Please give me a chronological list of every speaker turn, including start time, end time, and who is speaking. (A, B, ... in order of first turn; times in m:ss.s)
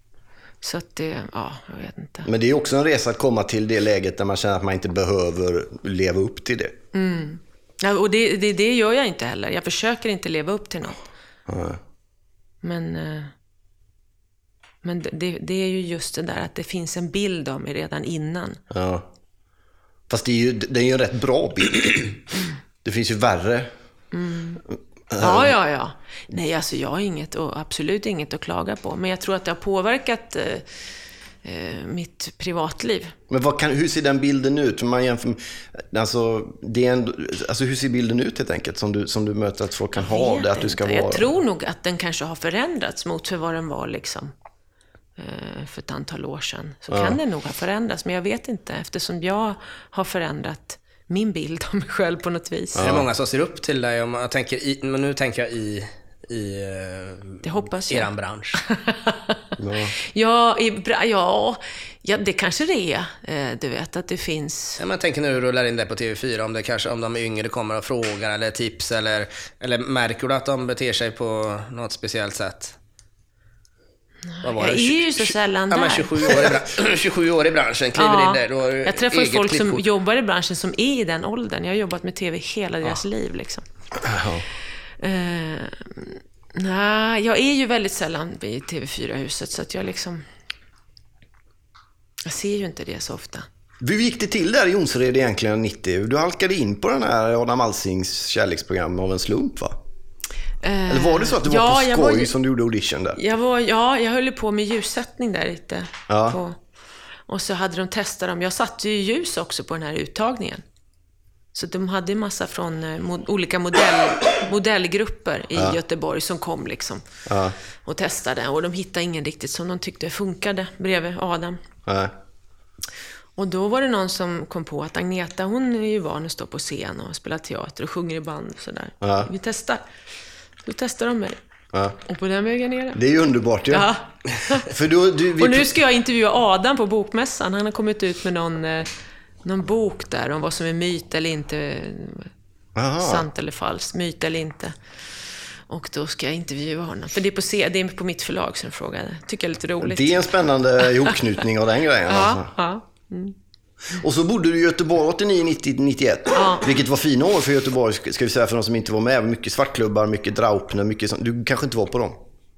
0:00.6-0:02.3 A
0:02.2-0:06.8 B
0:06.9-0:11.0 A
0:11.5-0:11.8 B
0:12.6-0:13.3 A
0:14.8-0:18.6 A
0:18.7-0:19.0 B
0:20.1-0:22.2 B
0:22.8-0:23.7 B
0:24.1-0:24.6 A
0:25.1-0:25.5 B
0:25.2-0:30.7 A
0:31.4-0:33.1 A
0:33.3-0:41.3 B
0:39.9-0:44.3 A
0:45.2-0:52.8 A
0:46.9-0:47.2 B
0:52.8-0:53.1 B
0:52.8-0:58.6 C
0:57.4-0:59.4 A
0:59.6-0:59.9 B
1:00.0-1:04.8 A
1:04.8-1:12.7 C
1:14.4-1:16.5 A
1:14.4-1:19.8 C
1:18.0-1:23.6 A
1:24.0-1:24.4 B
1:25.0-1:30.2 A
1:32.2-1:33.4 A
1:33.8-1:39.8 B
1:40.6-1:42.3 A
1:40.9-1:43.2 B
1:43.1-1:46.6 A
1:46.1-1:46.4 B
1:47.3-1:50.6 A
1:51.5-1:57.0 A
1:57.2-1:57.5 B
1:57.8-2:01.6 A
2:01.8-2:02.1 B
2:03.4-2:09.8 A
2:09.0-2:09.3 B
2:10.6-2:11.4 A
2:11.7-2:12.0 B
2:12.0-2:13.0 A
2:12.9-2:13.9 B
2:13.7-2:14.7 A
2:14.6-2:15.7 B
2:15.4-2:18.9 A
2:19.4-2:22.3 A
2:22.7-2:23.3 B
2:23.0-2:24.7 A
2:25.7-2:31.2 A
2:29.8-2:32.5 B
2:32.1-2:33.3 A
2:33.9-2:42.2 B
2:36.3-2:36.7 A